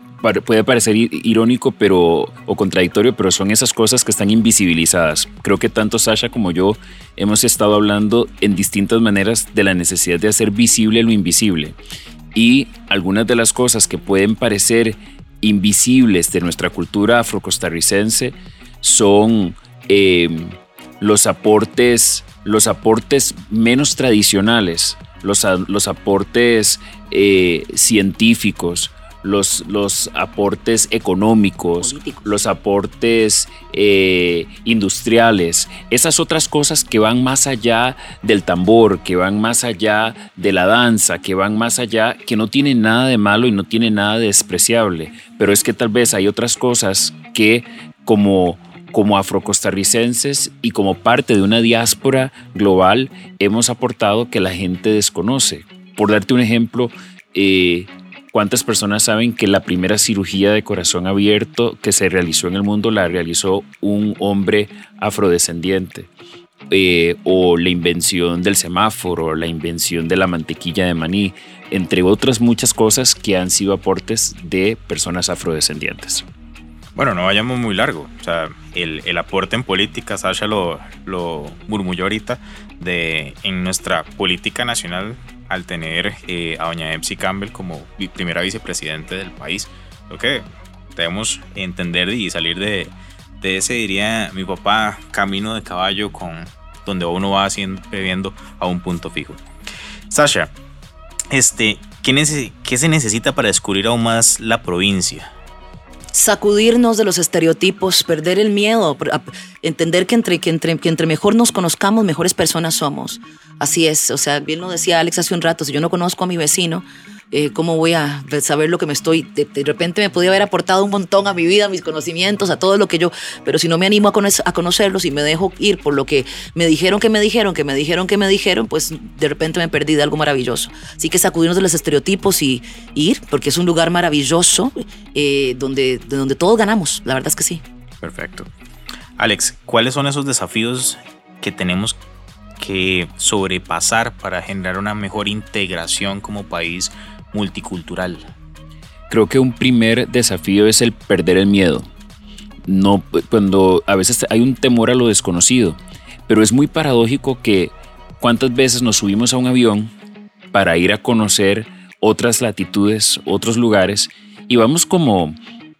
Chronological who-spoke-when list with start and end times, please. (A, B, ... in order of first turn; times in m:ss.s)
0:00.2-0:11.8 A
0:12.3-1:06.1 A
0:31.8-0:32.4 B
1:06.7-1:16.2 A
1:17.0-1:39.4 C
1:40.1-1:40.5 C
1:41.3-1:45.3 C
1:46.1-2:17.6 B
2:18.0-2:18.5 C
2:19.2-2:22.0 C
2:22.6-2:28.3 C
2:29.1-2:31.9 A
2:32.6-2:39.9 A
2:40.5-2:45.3 A